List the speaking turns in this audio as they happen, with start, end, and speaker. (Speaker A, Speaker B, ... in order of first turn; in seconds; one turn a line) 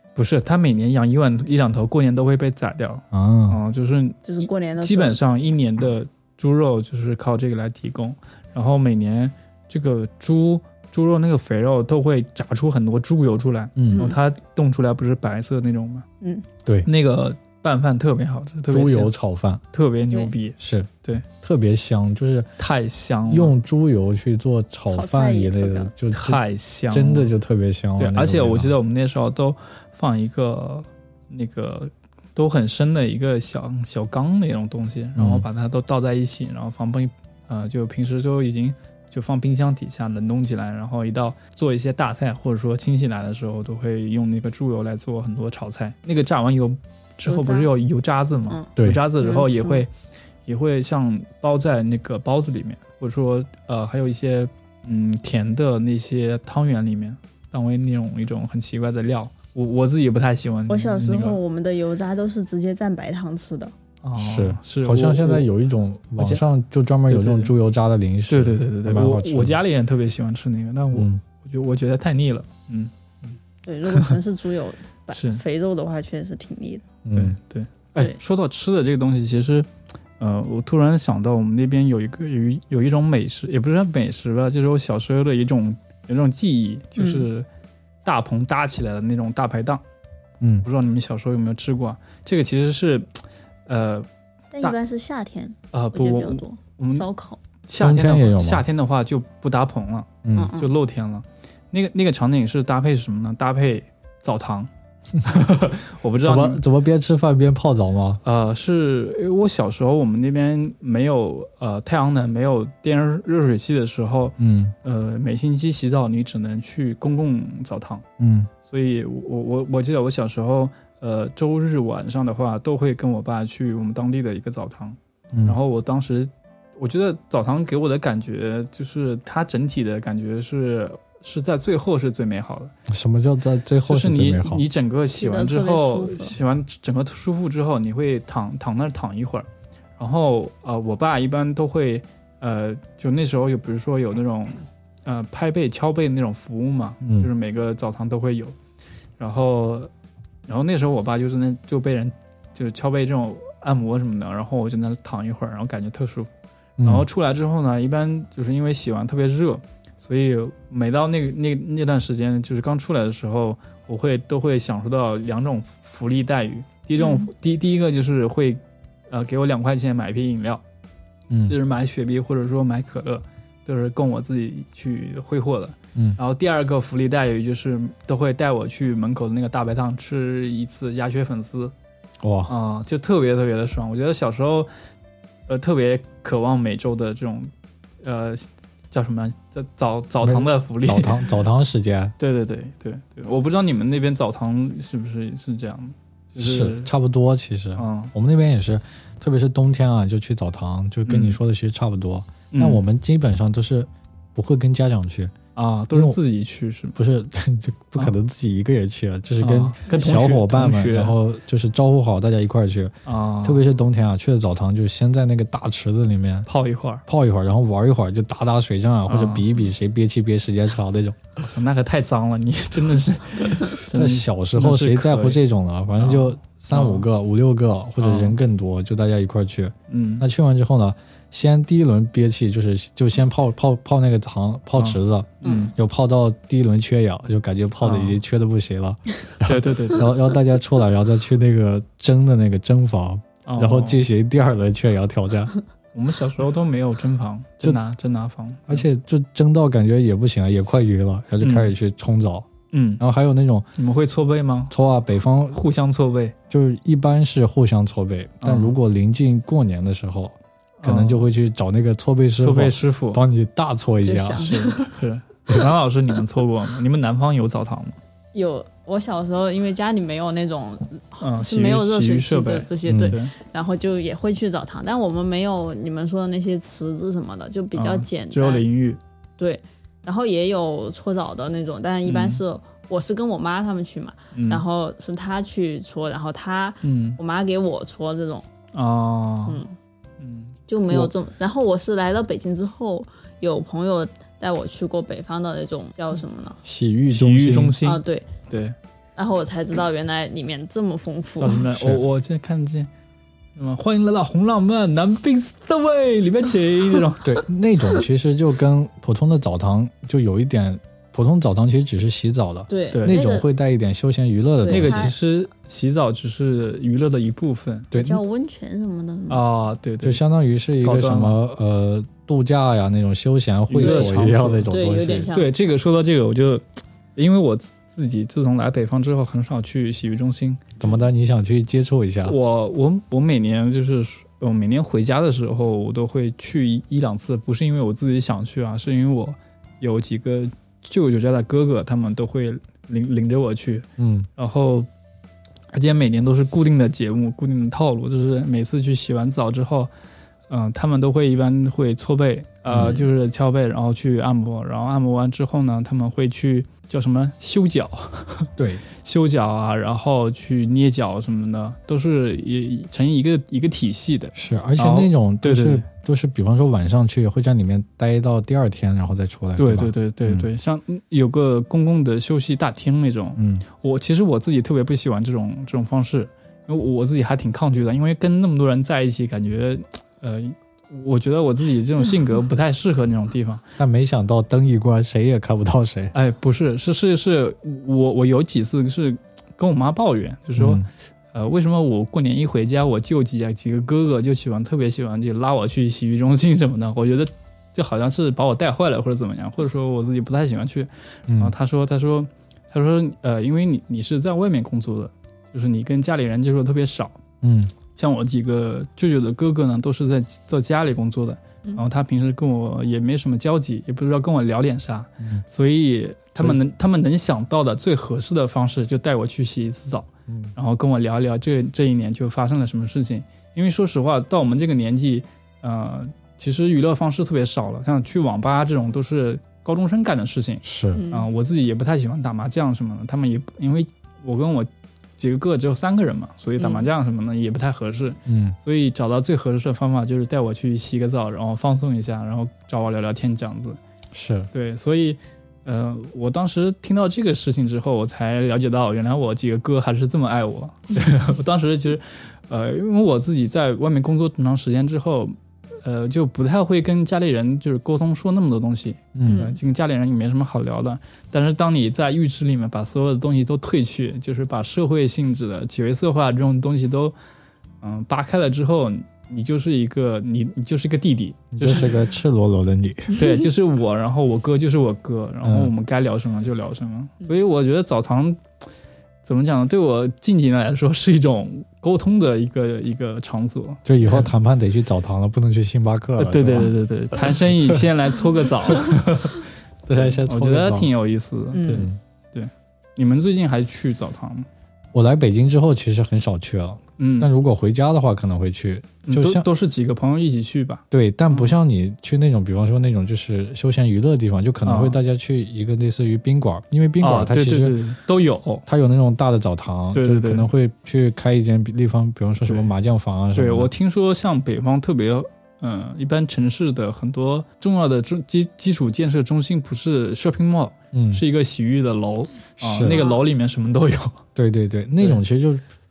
Speaker A: 0.1-16.1
Speaker B: 3.1-3.6
Speaker C: 4.2-5.2
Speaker B: 13.8-14.1
Speaker C: 13.9-14.2
Speaker C: 16.2-16.4
Speaker A: 16.8-19.1
Speaker B: 18.7-19.6
Speaker A: 19.7-21.2
Speaker B: 20.6-22.5
Speaker A: 22.6-23.5
Speaker B: 23.3-28.7
Speaker C: 24.9-26.0
Speaker A: 26.1-27.3
Speaker A: 28.0-49.9
Speaker B: 35.1-35.5
Speaker C: 47.2-47.7
Speaker C: 48.5-49.8
Speaker B: 48.8-49.0
Speaker A: 50.5-61.4
Speaker C: 60.7-63.7
Speaker A: 64.0-65.5
Speaker B: 64.2-69.6
Speaker A: 66.2-66.4
Speaker A: 67.1-67.5
Speaker A: 68.3-74.2
Speaker B: 70.9-71.2
Speaker C: 73.6-76.8
Speaker A: 75.1-75.4
Speaker B: 77.0-77.4
Speaker A: 77.1-79.7
Speaker A: 80.2-87.5
Speaker C: 87.0-87.3
Speaker A: 88.0-89.8
Speaker B: 90.4-90.7
Speaker A: 90.6-93.1
Speaker A: 93.7-94.1
Speaker C: 94.5-97.4
Speaker A: 95.7-97.0
Speaker A: 97.7-104.7
Speaker B: 97.8-98.6
Speaker B: 100.2-100.5
Speaker C: 100.3-100.7
Speaker A: 105.2-106.6
Speaker B: 106.2-108.2
Speaker A: 108.2-118.0
Speaker B: 114.4-114.7
Speaker B: 118.2-118.5
Speaker A: 118.7-132.7
Speaker B: 125.3-125.6
Speaker B: 132.9-134.6
Speaker A: 133.8-139.5
Speaker C: 135.0-136.3
Speaker A: 140.0-148.5
Speaker B: 147.0-147.3
Speaker A: 149.2-149.9
Speaker A: 150.5-156.3
Speaker B: 156.8-157.1
Speaker A: 156.8-170.6
Speaker C: 167.0-167.3
Speaker B: 171.3-171.6
Speaker A: 171.5-181.7
Speaker B: 182.2-182.5
Speaker A: 182.5-184.7
Speaker A: 185.5-187.5
Speaker A: 188.0-191.3
Speaker B: 190.2-192.1
Speaker A: 192.2-196.9
Speaker B: 196.4-205.3
Speaker A: 197.8-198.1
Speaker A: 201.1-201.4
Speaker A: 202.5-202.8
Speaker A: 205.5-207.0
Speaker B: 205.9-206.2
Speaker B: 206.9-216.5
Speaker A: 209.4-211.2
Speaker A: 213.1-213.6
Speaker A: 216.5-217.0
Speaker B: 217.1-221.3
Speaker A: 219.1-219.5
Speaker A: 221.4-225.4
Speaker B: 223.9-245.5
Speaker A: 226.0-227.1
Speaker A: 228.0-228.4
Speaker A: 229.9-230.2
Speaker A: 234.8-235.7
Speaker C: 235.4-235.7
Speaker A: 237.8-238.2
Speaker A: 239.4-240.1
Speaker A: 243.4-244.1
Speaker A: 245.9-248.8
Speaker B: 248.7-253.7
Speaker A: 251.4-251.7
Speaker A: 252.7-253.0
Speaker A: 253.8-254.7
Speaker B: 254.7-255.6
Speaker A: 255.5-256.3
Speaker B: 256.5-264.6
Speaker A: 258.4-258.8
Speaker A: 260.8-261.3
Speaker A: 262.4-263.2
Speaker C: 264.0-264.9
Speaker A: 264.4-268.0
Speaker C: 268.3-278.6
Speaker A: 271.2-273.3
Speaker B: 272.9-273.1
Speaker A: 277.7-279.0
Speaker C: 279.4-288.5
Speaker A: 282.1-282.4
Speaker A: 284.3-284.6
Speaker A: 286.8-287.2
Speaker A: 288.7-289.6
Speaker C: 289.4-289.7
Speaker A: 290.2-290.6
Speaker C: 290.7-296.6
Speaker B: 296.6-297.8
Speaker A: 297.1-298.8
Speaker C: 297.8-298.3
Speaker C: 299.2-301.6
Speaker A: 301.4-302.9
Speaker B: 301.6-302.0
Speaker A: 303.6-307.4
Speaker B: 307.2-315.1
Speaker C: 312.7-313.4
Speaker A: 312.9-313.2
Speaker C: 314.6-315.1
Speaker A: 314.6-317.9
Speaker B: 317.9-318.2
Speaker C: 317.9-319.4
Speaker A: 319.3-320.2
Speaker B: 320.0-325.3
Speaker A: 320.8-321.4
Speaker A: 323.7-324.7
Speaker C: 323.8-325.5
Speaker A: 325.3-326.6
Speaker A: 327.1-330.8
Speaker B: 330.8-332.4
Speaker A: 332.2-344.9
Speaker B: 344.0-344.3
Speaker A: 345.7-349.9
Speaker A: 350.5-365.8
Speaker B: 352.7-353.0
Speaker C: 352.8-353.1
Speaker B: 358.6-358.8
Speaker B: 364.3-370.5
Speaker A: 369.6-383.6
Speaker B: 373.4-373.6
Speaker B: 383.8-386.1
Speaker A: 386.1-407.2
Speaker B: 390.6-390.9
Speaker B: 401.3-401.5
Speaker B: 407.4-407.7
Speaker A: 407.9-443.8
Speaker B: 420.3-420.5
Speaker B: 430.6-431.0
Speaker C: 430.9-431.3
Speaker C: 436.6-436.9
Speaker B: 438.2-438.6
Speaker B: 444.1-444.5
Speaker A: 444.5-467.1
Speaker B: 459.1-459.5
Speaker C: 459.2-459.6
Speaker A: 467.8-472.0
Speaker B: 471.5-473.2
Speaker A: 473.1-478.4
Speaker B: 475.4-475.7
Speaker A: 479.2-484.3
Speaker B: 483.9-487.8
Speaker A: 486.2-494.5
Speaker B: 488.7-489.0
Speaker B: 489.9-490.9
Speaker C: 491.5-491.9
Speaker B: 491.6-492.0
Speaker B: 494.9-499.4
Speaker A: 497.0-497.3
Speaker A: 499.1-501.5
Speaker B: 500.9-507.8
Speaker A: 504.6-505.0
Speaker A: 507.0-508.6
Speaker B: 508.7-513.7
Speaker A: 509.9-510.5
Speaker A: 513.3-524.2
Speaker B: 520.9-521.2
Speaker B: 522.6-523.0
Speaker C: 522.8-523.2
Speaker B: 524.3-525.6